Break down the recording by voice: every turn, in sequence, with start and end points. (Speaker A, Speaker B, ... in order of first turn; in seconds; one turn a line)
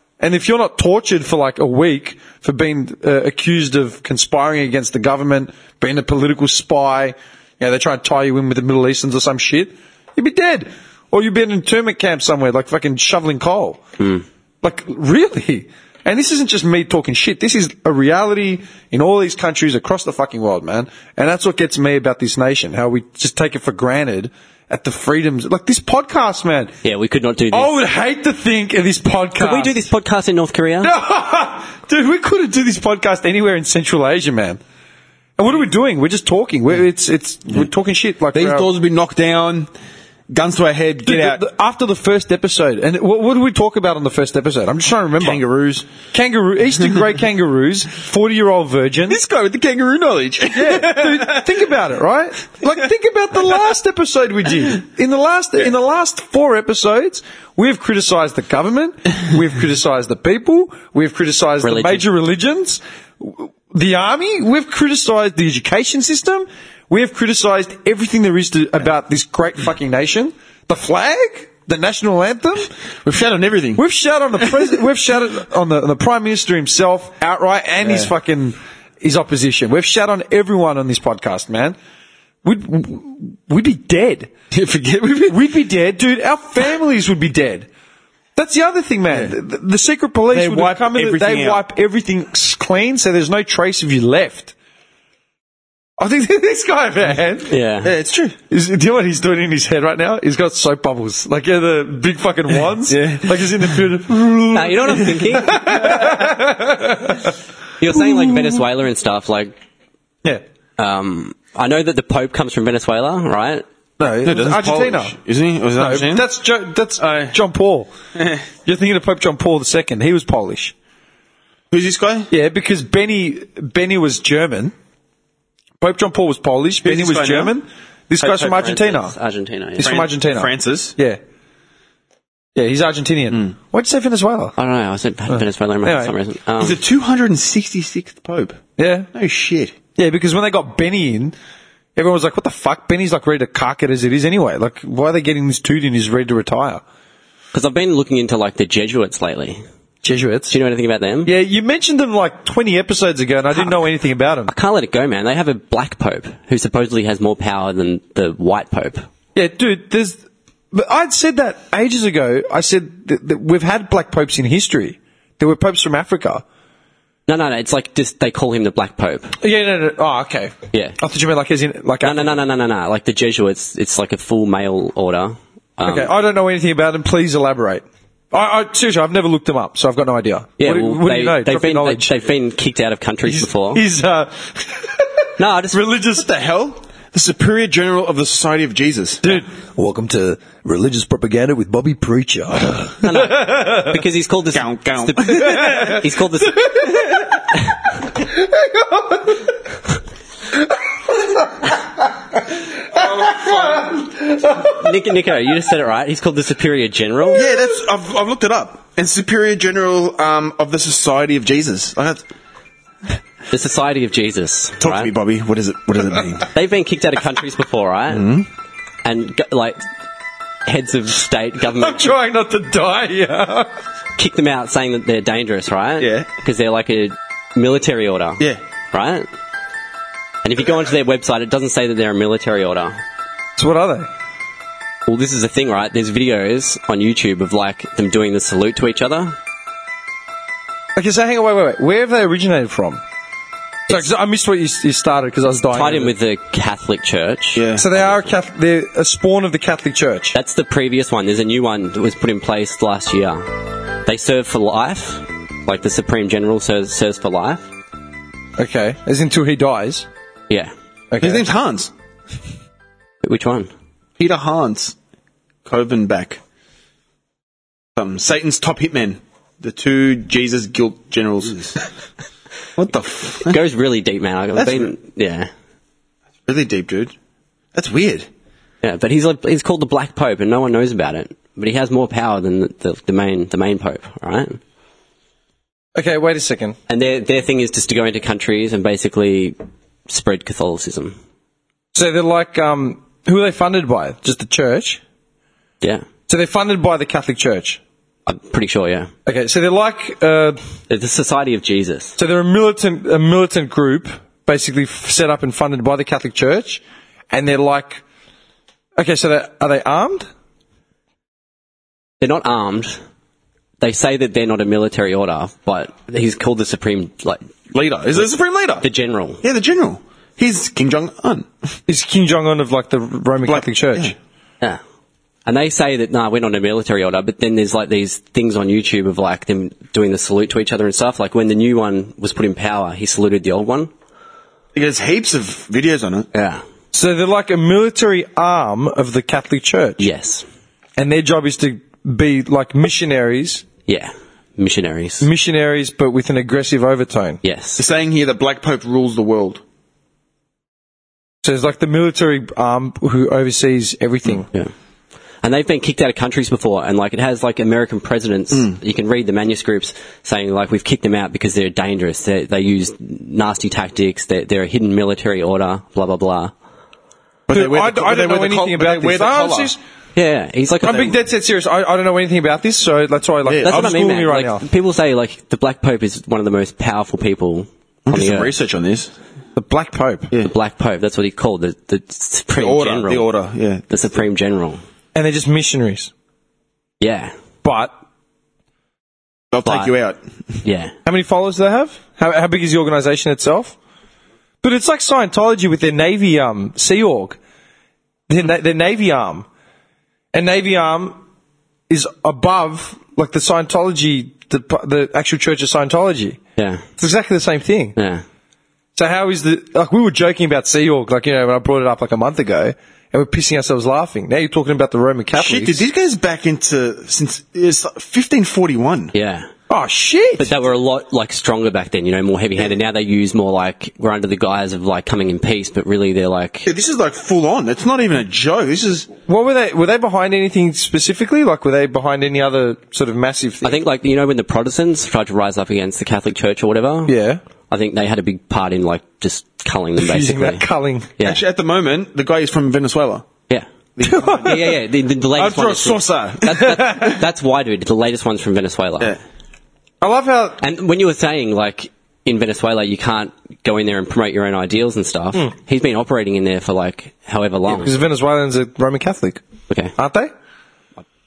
Speaker A: 0.2-13.8
Speaker A: 14.6-26.7
Speaker B: 26.8-27.8
Speaker A: 27.5-29.9
Speaker B: 29.4-30.9
Speaker A: 30.8-34.6
Speaker A: 35.4-38.7
Speaker C: 38.3-39.7
Speaker C: 40.3-41.4
Speaker A: 41.0-45.4
Speaker C: 45.2-45.9
Speaker A: 46.1-49.2
Speaker C: 49.1-51.5
Speaker A: 50.5-72.7
Speaker B: 61.6-62.0
Speaker C: 73.0-73.8
Speaker A: 73.8-81.8
Speaker C: 77.8-78.1
Speaker A: 82.4-84.3
Speaker C: 84.5-85.4
Speaker A: 85.3-87.7
Speaker A: 88.3-94.5
Speaker C: 90.3-91.6
Speaker A: 96.0-97.5
Speaker B: 97.5-97.9
Speaker C: 97.8-98.3
Speaker A: 98.5-107.3
Speaker C: 102.9-103.4
Speaker B: 104.5-106.2
Speaker B: 107.8-109.5
Speaker A: 107.9-108.3
Speaker B: 110.8-113.6
Speaker A: 114.0-115.1
Speaker C: 114.2-116.3
Speaker A: 115.8-117.9
Speaker C: 117.0-117.3
Speaker C: 118.2-118.4
Speaker A: 118.6-120.7
Speaker C: 121.7-122.3
Speaker A: 122.3-124.7
Speaker A: 125.8-129.1
Speaker C: 126.8-127.5
Speaker B: 128.2-130.1
Speaker A: 129.8-131.2
Speaker C: 129.8-130.9
Speaker A: 132.6-134.5
Speaker B: 134.6-136.8
Speaker A: 135.3-136.1
Speaker C: 136.6-138.6
Speaker A: 138.8-139.1
Speaker C: 139.1-139.7
Speaker A: 140.0-141.3
Speaker A: 141.9-146.8
Speaker B: 147.5-149.6
Speaker A: 150.0-150.6
Speaker B: 150.5-151.3
Speaker A: 151.2-154.5
Speaker B: 154.5-159.0
Speaker A: 159.3-160.2
Speaker A: 160.7-166.4
Speaker B: 167.3-169.4
Speaker A: 169.4-172.3
Speaker B: 170.7-171.0
Speaker B: 172.0-176.1
Speaker A: 175.8-182.2
Speaker B: 180.6-183.8
Speaker A: 183.2-185.1
Speaker B: 185.4-185.8
Speaker A: 185.7-186.3
Speaker C: 186.2-189.4
Speaker A: 189.2-194.0
Speaker B: 193.0-196.9
Speaker C: 194.5-195.9
Speaker A: 195.5-196.0
Speaker A: 198.7-199.2
Speaker A: 202.9-204.7
Speaker B: 204.6-207.4
Speaker C: 207.3-212.2
Speaker B: 213.5-215.1
Speaker C: 214.8-216.5
Speaker B: 216.5-218.4
Speaker C: 218.1-218.5
Speaker B: 219.0-219.8
Speaker B: 220.7-222.1
Speaker A: 221.8-223.7
Speaker B: 224.2-229.3
Speaker C: 226.0-226.3
Speaker B: 230.4-233.0
Speaker A: 233.6-234.1
Speaker B: 235.1-239.3
Speaker A: 240.9-243.0
Speaker A: 243.9-246.1
Speaker B: 245.7-248.3
Speaker C: 247.5-247.8
Speaker A: 247.8-250.3
Speaker B: 250.3-257.6
Speaker A: 258.6-260.1
Speaker A: 261.1-261.4
Speaker C: 261.2-261.9
Speaker B: 263.2-263.7
Speaker C: 264.2-264.9
Speaker C: 265.6-266.4
Speaker C: 267.9-271.8
Speaker C: 272.8-273.6
Speaker B: 273.5-275.5
Speaker C: 274.6-274.9
Speaker C: 276.5-277.1
Speaker C: 277.7-278.3
Speaker B: 278.8-284.6
Speaker A: 285.9-286.8
Speaker B: 286.9-289.6
Speaker B: 290.1-291.1
Speaker A: 291.9-295.0
Speaker A: 296.3-297.8
Speaker B: 298.3-299.1
Speaker A: 299.2-300.6
Speaker B: 300.9-302.2
Speaker A: 302.2-308.0
Speaker A: 309.0-310.3
Speaker B: 312.2-313.0
Speaker B: 313.8-317.4
Speaker C: 317.7-318.9
Speaker B: 318.8-319.4
Speaker C: 319.4-321.5
Speaker A: 321.9-324.1
Speaker C: 323.4-324.1
Speaker B: 325.4-333.9
Speaker C: 334.7-336.3
Speaker B: 336.3-336.6
Speaker A: 336.9-340.1
Speaker B: 340.0-340.4
Speaker A: 341.0-343.6
Speaker B: 343.9-345.3
Speaker A: 345.2-347.4
Speaker B: 347.4-347.8
Speaker C: 347.8-349.6
Speaker A: 351.4-354.5
Speaker B: 355.4-366.5
Speaker C: 367.5-369.7
Speaker A: 367.5-369.8
Speaker B: 370.1-371.1
Speaker A: 370.8-374.6
Speaker C: 373.4-373.9
Speaker B: 373.6-378.5
Speaker C: 378.1-379.1
Speaker A: 379.5-380.3
Speaker B: 380.4-383.2
Speaker C: 382.5-383.9
Speaker B: 383.9-384.8
Speaker A: 385.1-386.1
Speaker B: 387.0-387.3
Speaker A: 387.6-387.9
Speaker C: 389.5-390.2
Speaker B: 389.6-389.9
Speaker B: 390.6-390.9
Speaker A: 391.1-393.8
Speaker A: 394.6-397.4
Speaker A: 398.3-399.4
Speaker A: 400.3-401.2
Speaker A: 401.9-406.4
Speaker B: 406.6-406.8
Speaker A: 407.0-407.9
Speaker B: 408.0-408.2
Speaker A: 408.9-415.8
Speaker C: 415.3-419.1
Speaker B: 419.1-419.5
Speaker A: 419.7-420.5
Speaker B: 420.4-426.7
Speaker C: 426.6-429.1
Speaker A: 429.3-433.8
Speaker B: 433.6-437.1
Speaker A: 437.1-437.4
Speaker B: 437.7-440.6
Speaker A: 440.0-441.1
Speaker C: 441.2-443.3
Speaker B: 443.5-449.1
Speaker C: 444.0-444.8
Speaker A: 444.0-444.7
Speaker C: 445.3-447.0
Speaker A: 446.5-447.1
Speaker A: 450.0-450.6
Speaker B: 450.6-457.9
Speaker A: 457.7-459.4
Speaker A: 459.9-460.3